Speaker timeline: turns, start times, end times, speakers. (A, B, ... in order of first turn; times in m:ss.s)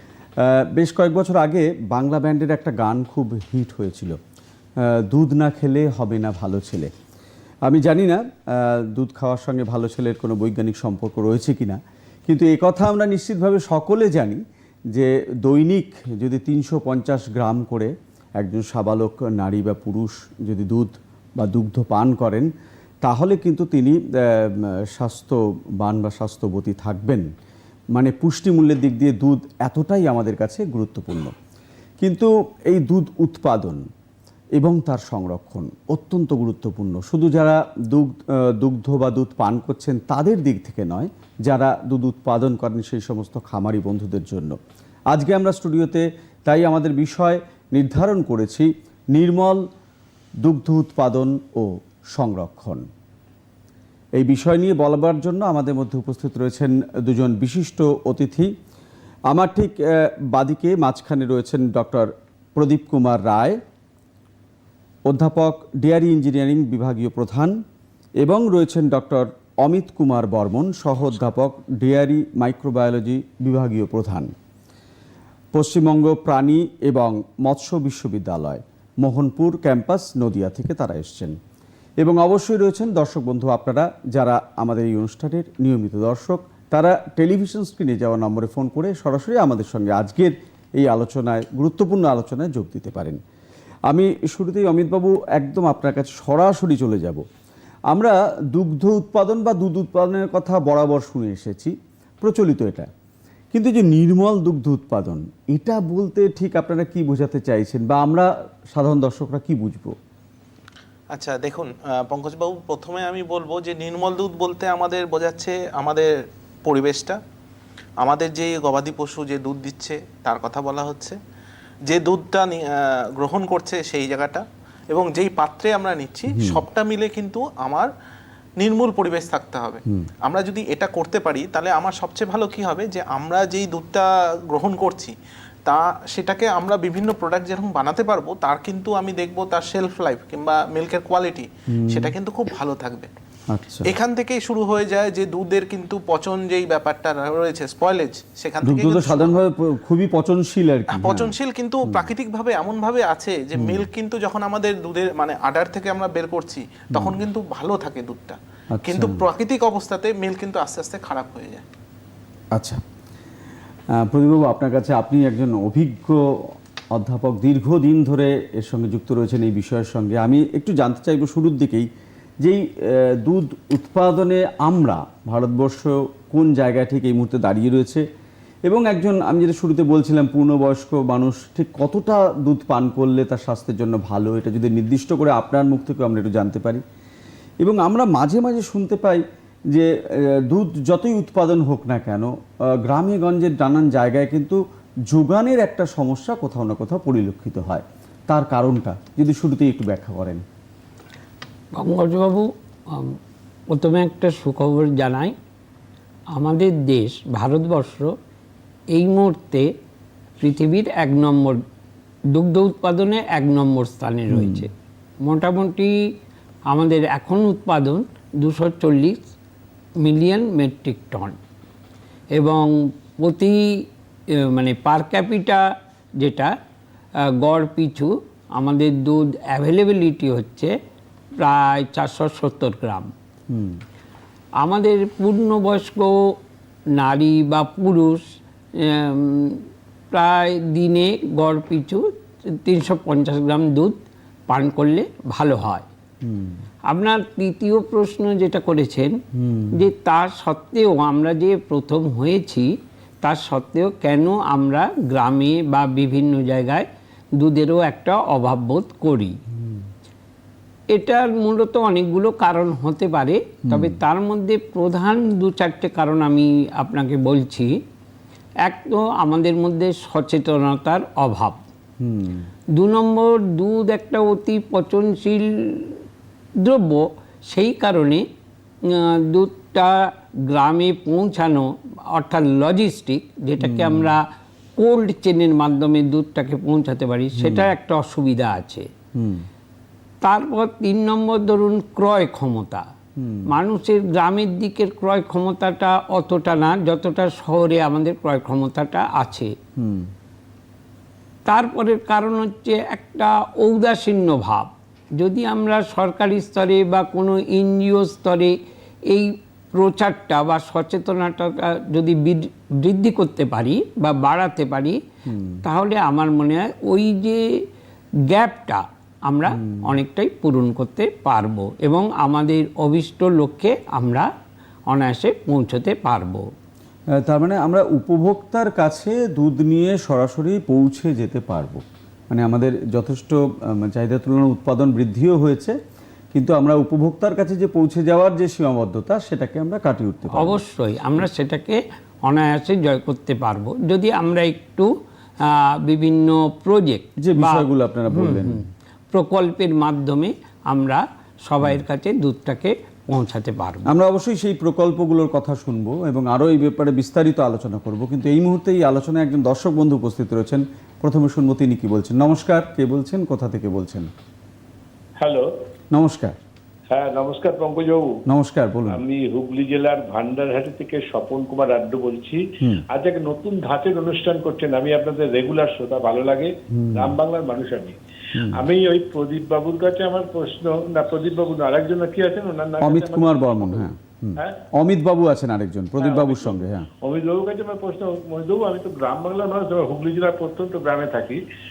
0:00.4-0:04.2 A
0:04.8-0:06.9 A
0:07.7-0:22.5 A
0:23.0-0:27.3 A
0:27.9-0:31.4 A
0:32.0-0:33.9 A
0:34.6-0:44.6 A
0:45.1-0:49.6 A
0:50.4-0:52.9 A
0:54.2-0:58.5 A
0:59.3-1:03.6 A
1:05.1-1:07.6 A
1:08.2-1:14.3 A
1:15.5-1:21.4 A
1:22.0-1:33.2 A
1:33.9-1:37.2 A
1:37.9-1:42.9 A
1:43.5-1:50.0 A
1:51.1-1:57.2 B
1:58.0-2:01.2 B
2:01.9-2:07.9 B
2:06.3-2:06.6 A
2:08.6-2:23.1 B
2:21.7-2:22.1 A
2:23.5-2:23.9 A
2:23.8-2:29.4 B
2:28.6-2:31.3 A
2:30.9-2:41.6 B
2:33.6-2:33.9 A
2:37.0-2:37.2 A
2:38.7-2:39.2 A
2:42.5-2:42.8 A
2:44.0-2:51.9 A
2:52.4-2:58.0 A
2:58.7-3:06.8 A
3:07.6-3:20.4 A
3:21.8-3:23.2 C
3:23.7-3:25.4 C
3:26.4-3:28.2 C
3:28.9-3:29.7 C
3:30.4-3:31.6 C
3:32.3-3:34.7 C
3:34.3-3:34.7 A
3:35.2-3:36.1 C
3:36.7-3:39.2 C
3:40.0-3:41.4 C
3:42.4-3:43.9 C
3:44.4-3:45.7 C
3:46.2-3:46.6 C
3:47.3-3:50.8 C
3:51.4-3:53.1 C
3:53.5-3:53.8 A
3:54.6-3:56.2 C
3:57.0-3:58.2 C
3:58.8-4:05.8 C
4:06.2-4:06.6 A
4:06.9-4:09.2 C
4:09.4-4:09.8 A
4:09.7-4:19.4 C
4:20.9-4:27.8 C
4:23.7-4:24.0 A
4:28.6-4:31.6 C
4:32.0-4:32.5 A
4:32.7-4:36.0 C
4:36.6-4:38.2 C
4:38.8-4:44.3 C
4:43.6-4:44.1 A
4:44.8-4:48.9 C
4:47.4-4:47.7 A
4:49.2-4:49.5 A
4:50.2-4:52.9 C
4:53.2-4:53.5 A
4:53.5-4:59.5 C
4:59.8-5:00.1 A
5:01.5-5:08.6 C
5:09.1-5:15.0 C
5:15.3-5:15.6 A
5:15.6-5:17.6 C
5:18.3-5:24.3 C
5:19.5-5:20.0 A
5:24.9-5:26.5 C
5:27.1-5:35.8 A
5:36.3-5:40.6 A
5:40.3-5:48.6 C
5:47.2-5:48.6 A
5:49.1-5:53.9 C
5:53.9-6:04.1 A
6:05.2-6:05.5 D
6:05.9-6:06.4 A
6:06.9-6:08.2 D
6:08.3-6:09.0 A
6:08.9-6:24.6 D
6:16.7-6:17.2 A
6:18.4-6:18.6 A
6:22.8-6:26.9 A
6:26.0-6:31.4 D